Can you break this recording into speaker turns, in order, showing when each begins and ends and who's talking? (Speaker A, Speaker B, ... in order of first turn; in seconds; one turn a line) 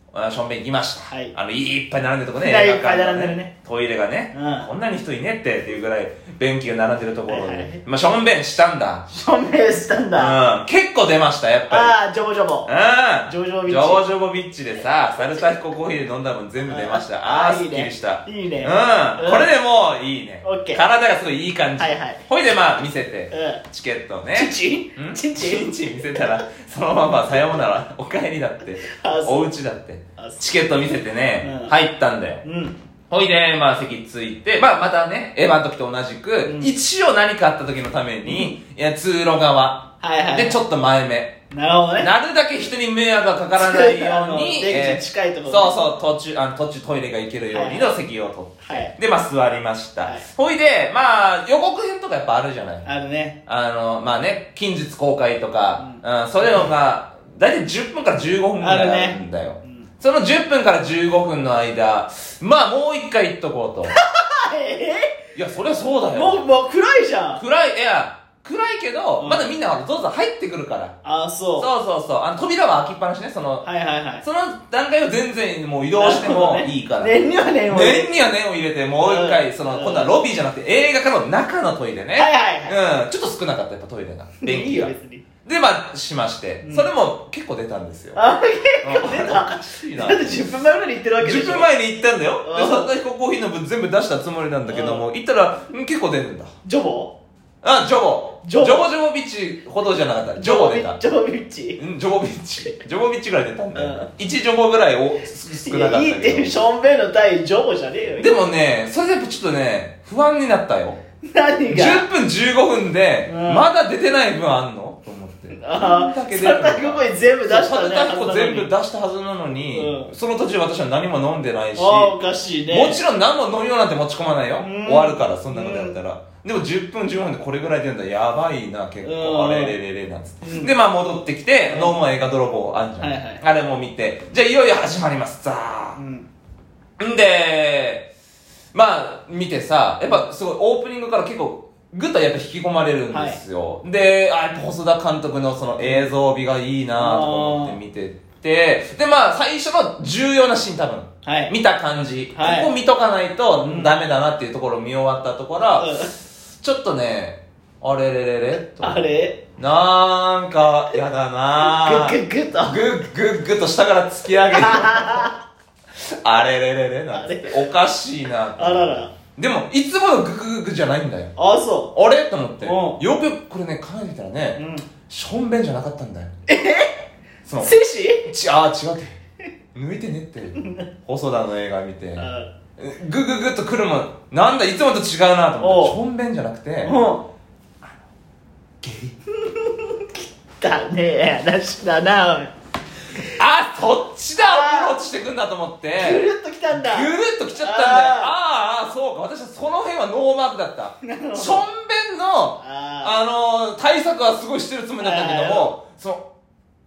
Speaker A: 0.1-9.1
Speaker B: 1.1-1.3
Speaker B: 2.4-3.5
Speaker B: 4.3-4.7
Speaker B: 7.3-7.8
Speaker B: 9.1-10.4
Speaker A: 10.2-12.0
Speaker B: 11.7-12.7
Speaker A: 12.7-32.4
Speaker B: 13.3-14.1
Speaker B: 16.7-19.5
Speaker B: 20.4-20.8
Speaker B: 21.8-22.2
Speaker B: 23.3-23.6
Speaker B: 24.3-26.2
Speaker B: 28.8-29.5
Speaker B: 30.2-30.8
Speaker B: 31.4-31.7
Speaker B: 32.4-32.8
Speaker A: 33.1-41.4
Speaker B: 36.4-36.7
Speaker B: 38.3-38.5
Speaker B: 40.0-40.6
Speaker B: 41.5-42.1
Speaker A: 42.0-52.9
Speaker B: 43.6-45.8
Speaker B: 47.5-48.0
Speaker B: 48.6-48.9
Speaker B: 52.9-53.4
Speaker A: 53.5-64.0
Speaker B: 55.8-56.6
Speaker B: 58.6-59.9
Speaker B: 64.0-65.2
Speaker A: 65.3-66.4
Speaker B: 66.1-67.4
Speaker A: 67.4-71.0
Speaker B: 69.2-69.5
Speaker B: 71.0-71.7
Speaker A: 71.6-73.7
Speaker B: 73.6-74.2
Speaker A: 74.2-84.9
Speaker B: 76.0-78.2
Speaker B: 79.0-80.1
Speaker B: 82.2-82.8
Speaker B: 84.4-85.2
Speaker A: 85.5-88.2
Speaker B: 86.6-86.9
Speaker B: 88.2-91.7
Speaker A: 88.8-90.5
Speaker A: 91.2-96.5
Speaker B: 92.4-92.9
Speaker B: 94.7-95.0
Speaker B: 96.7-97.2
Speaker A: 97.6-101.0
Speaker B: 98.4-98.9
Speaker B: 100.4-101.8
Speaker A: 101.8-106.5
Speaker B: 103.8-104.1
Speaker B: 105.5-108.3
Speaker A: 108.2-111.0
Speaker B: 111.3-112.1
Speaker A: 111.7-122.2
Speaker B: 113.3-113.7
Speaker B: 115.5-118.7
Speaker B: 119.7-120.1
Speaker B: 121.8-123.0
Speaker A: 122.7-136.0
Speaker B: 124.6-126.0
Speaker B: 129.0-129.8
Speaker B: 130.4-130.7
Speaker B: 131.7-131.9
Speaker B: 133.0-133.4
Speaker B: 136.0-136.3
Speaker A: 137.0-138.1
Speaker A: 138.7-159.0
Speaker B: 143.1-143.4
Speaker B: 145.8-146.1
Speaker B: 147.0-147.8
Speaker B: 151.2-151.5
Speaker B: 152.3-152.7
Speaker B: 153.6-153.9
Speaker B: 155.8-156.1
Speaker B: 158.7-159.4
Speaker A: 159.6-165.3
Speaker B: 161.6-162.9
Speaker B: 164.5-165.4
Speaker A: 165.9-171.3
Speaker B: 167.1-167.7
Speaker B: 168.6-169.1
Speaker B: 171.4-171.9
Speaker A: 171.9-176.3
Speaker B: 172.6-173.0
Speaker B: 174.6-174.9
Speaker B: 176.5-177.0
Speaker A: 177.4-177.7
Speaker B: 177.6-178.3
Speaker A: 178.2-179.2
Speaker A: 179.8-187.0
Speaker B: 180.6-180.9
Speaker B: 182.2-182.5
Speaker B: 185.6-186.0
Speaker B: 186.8-187.3
Speaker A: 188.8-189.2
Speaker B: 189.3-192.5
Speaker A: 193.4-206.3
Speaker B: 194.4-194.9
Speaker B: 196.0-198.3
Speaker B: 201.0-201.6
Speaker B: 202.6-203.2
Speaker B: 205.0-205.7